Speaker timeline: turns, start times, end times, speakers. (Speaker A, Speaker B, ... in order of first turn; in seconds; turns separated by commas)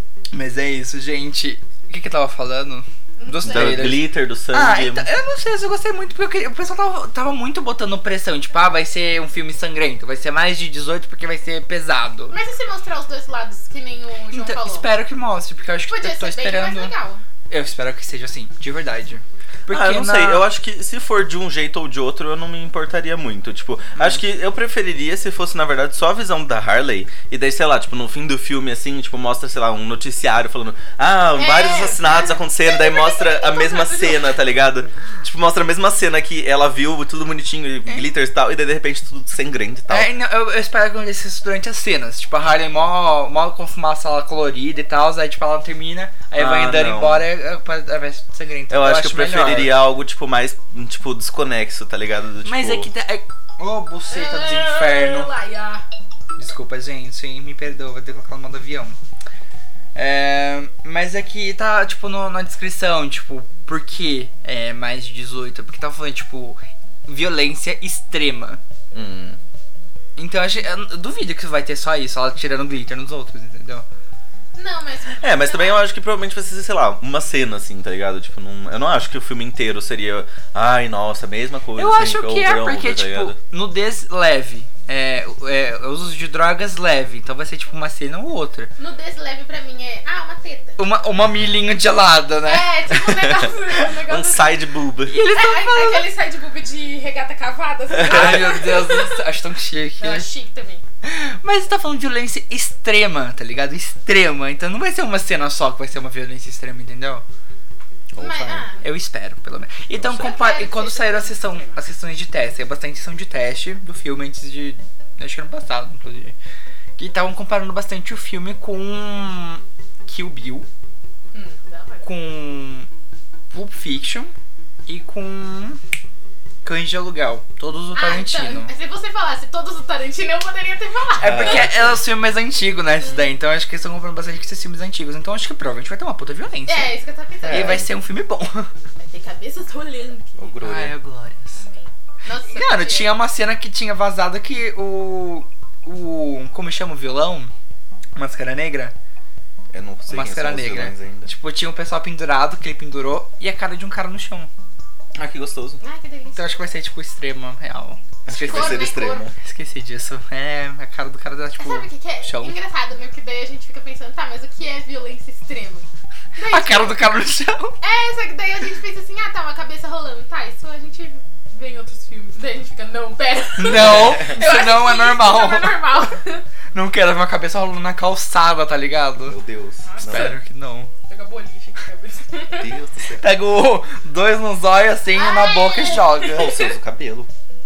Speaker A: 0.3-12.4, Speaker B: 3.2-3.9, Speaker C: 3.4-5.1, Speaker B: 12.3-14.9, Speaker A: 14.3-16.9, Speaker B: 15.9-17.2, Speaker A: 17.5-20.5, Speaker C: 19.7-40.1, Speaker B: 31.3-34.4, Speaker A: 39.9-49.8, Speaker C: 46.4-47.3, Speaker C: 48.7-52.9, Speaker A: 52.4-55.3, Speaker B: 54.1-55.8, Speaker A: 56.4-59.0, Speaker A: 60.0-68.6, Speaker C: 68.9-69.4, Speaker A: 70.2-73.9, Speaker B: 74.5-75.8, Speaker C: 75.2-83.4, Speaker A: 81.8-88.7, Speaker B: 88.8-90.8, Speaker A: 90.8-92.7, Speaker B: 92.5-94.6, Speaker C: 93.0-95.2, Speaker A: 95.1-96.1, Speaker B: 95.3-99.2, Speaker C: 98.0-98.5, Speaker A: 98.0-100.3, Speaker B: 100.0-100.8, Speaker A: 101.0-107.2, Speaker C: 108.1-108.7, Speaker B: 108.2-108.8, Speaker A: 108.8-116.4, Speaker C: 110.0-110.3, Speaker B: 110.2-111.8, Speaker A: 117.0-120.7, Speaker B: 121.3-122.1, Speaker A: 122.0-122.9, Speaker A: 123.5-124.3, Speaker A: 124.9-125.8, Speaker A: 126.6-128.7, Speaker B: 127.9-131.7, Speaker A: 131.2-137.0, Speaker C: 131.2-132.0, Speaker B: 133.0-133.3, Speaker B: 136.7-137.9, Speaker C: 137.4-137.9, Speaker A: 137.5-138.7, Speaker B: 139.0-140.5, Speaker C: 140.4-141.0, Speaker A: 140.6-141.6, Speaker B: 141.6-143.1, Speaker A: 142.5-147.5, Speaker A: 148.2-148.9, Speaker C: 149.7-151.3, Speaker A: 150.1-154.5, Speaker C: 155.2-155.8, Speaker B: 155.8-156.7, Speaker A: 156.4-162.6, Speaker C: 158.3-159.3, Speaker B: 158.4-159.3, Speaker B: 161.6-167.1, Speaker A: 166.4-167.8, Speaker B: 167.8-176.4, Speaker A: 173.6-175.8, Speaker C: 173.7-174.3, Speaker A: 176.7-179.4, Speaker C: 179.3-180.4, Speaker B: 179.8-180.4, Speaker A: 180.0-180.9, Speaker B: 181.1-182.7, Speaker C: 182.6-183.3, Speaker A: 183.2-186.5, Speaker B: 185.1-186.8, Speaker C: 186.2-187.3